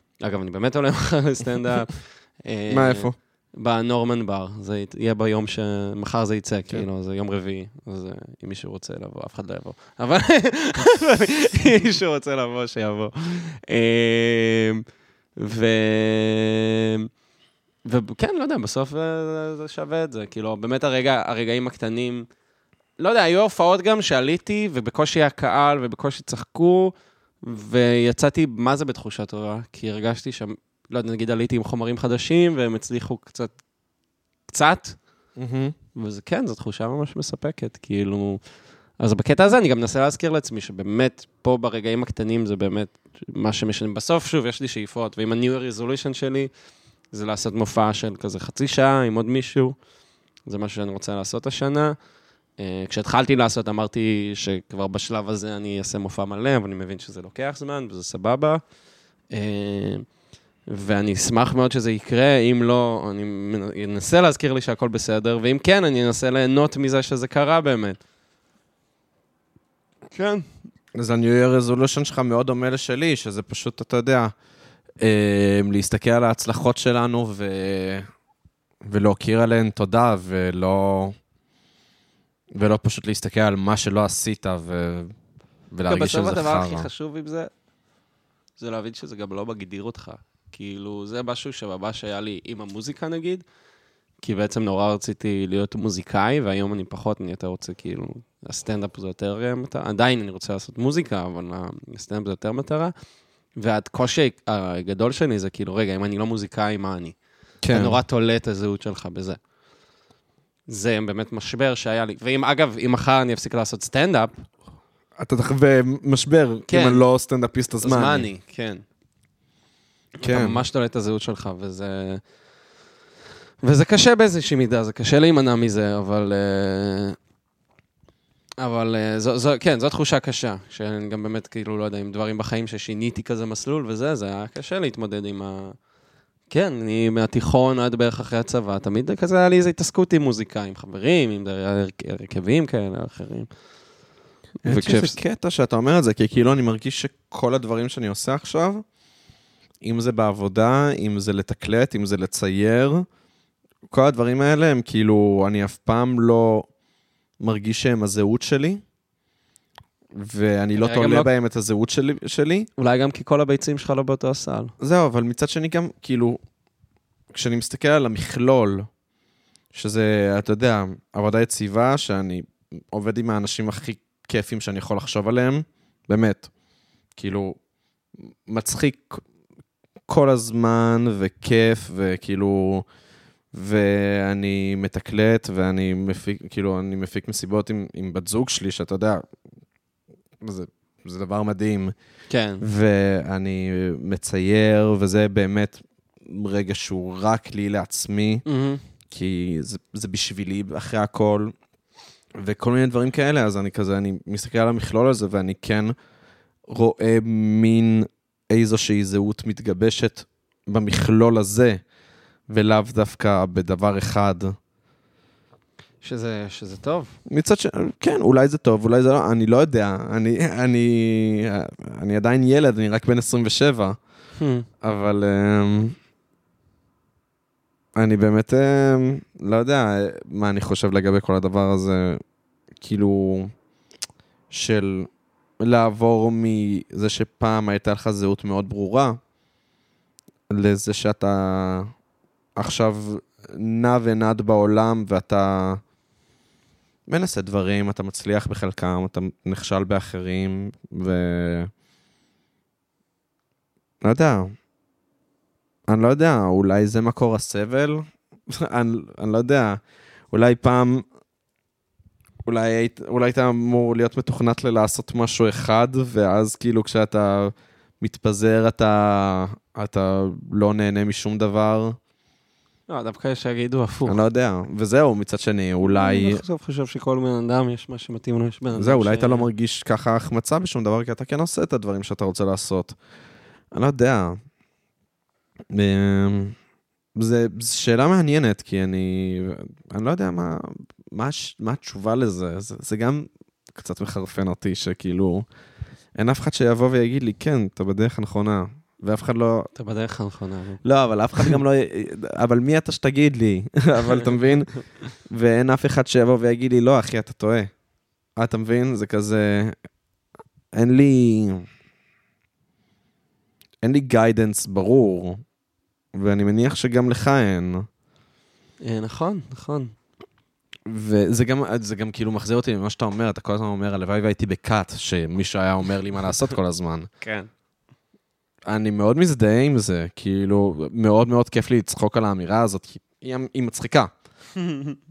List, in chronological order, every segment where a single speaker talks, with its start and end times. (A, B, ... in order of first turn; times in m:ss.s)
0:00.2-0:14.8 A
0:02.7-0:03.2 B
0:15.4-0:17.1 A
0:17.8-0:22.3 A
0:23.0-0:33.5 A
0:34.5-0:35.0 A
0:35.4-0:35.7 B
0:35.9-0:38.4 A
0:39.0-0:46.5 A
0:47.1-0:49.8 A
0:50.4-0:52.0 A
0:52.6-0:58.6 A
0:59.3-1:00.0 A
1:00.7-1:08.0 A
1:10.1-1:10.5 A
1:10.9-1:14.3 B
1:15.0-1:18.1 B
1:18.8-1:21.1 B
1:22.5-1:25.1 B
1:25.7-1:26.9 B
1:25.9-1:27.5 A
1:28.6-1:33.4 A
1:34.2-1:42.9 A
1:43.6-1:47.2 A
1:47.6-1:48.0 B
1:47.7-1:49.4 A
1:50.7-1:54.4 A
1:55.2-1:58.2 B
1:56.7-1:57.0 A
1:57.8-1:58.8 A
2:00.2-2:02.2 A
2:00.2-2:00.6 B
2:03.6-2:07.2 A
2:08.6-2:15.8 A
2:16.5-2:23.5 A
2:24.6-2:25.2 A
2:24.6-2:28.8 B
2:29.8-2:33.0 B
2:33.9-2:36.7 B
2:37.4-2:38.8 B
2:40.1-2:42.7 B
2:40.8-2:41.3 A
2:42.8-2:44.7 A
2:44.8-2:46.4 B
2:47.3-2:48.9 B
2:49.7-2:56.5 B
2:57.2-2:57.6 B
2:58.4-2:59.2 B
3:00.1-3:02.8 B
3:03.5-3:09.2 B
3:10.4-3:11.9 B
3:12.3-3:12.6 A
3:12.6-3:18.4 B
3:18.4-3:18.8 A
3:19.1-3:21.5 B
3:22.4-3:25.9 B
3:26.7-3:31.8 B
3:32.5-3:34.5 B
3:36.0-3:37.1 A
3:37.3-3:44.0 B
3:44.4-3:44.7 A
3:44.8-3:45.9 B
3:48.0-3:52.2 B
3:52.8-3:53.5 B
3:54.5-3:55.1 B
3:55.6-3:59.2 B
4:00.5-4:01.9 B
4:02.6-4:05.8 B
4:07.1-4:11.7 B
4:14.0-4:14.5 B
4:15.9-4:21.0 B
4:22.4-4:32.0 B
4:32.9-4:34.2 A
4:34.0-4:36.4 B
4:35.9-4:39.5 A
4:38.8-4:42.9 B
4:43.7-4:44.4 B
4:45.7-4:46.6 B
4:47.2-4:55.4 B
4:56.2-4:59.7 B
4:59.7-5:00.8 A
5:00.8-5:04.7 B
5:04.0-5:04.4 A
5:05.3-5:07.7 B
5:08.4-5:09.8 B
5:10.7-5:11.7 B
5:13.8-5:15.4 B
5:16.1-5:17.9 B
5:18.8-5:19.9 A
5:20.9-5:27.1 B
5:27.2-5:27.5 A
5:28.7-5:34.1 B
5:34.6-5:35.0 A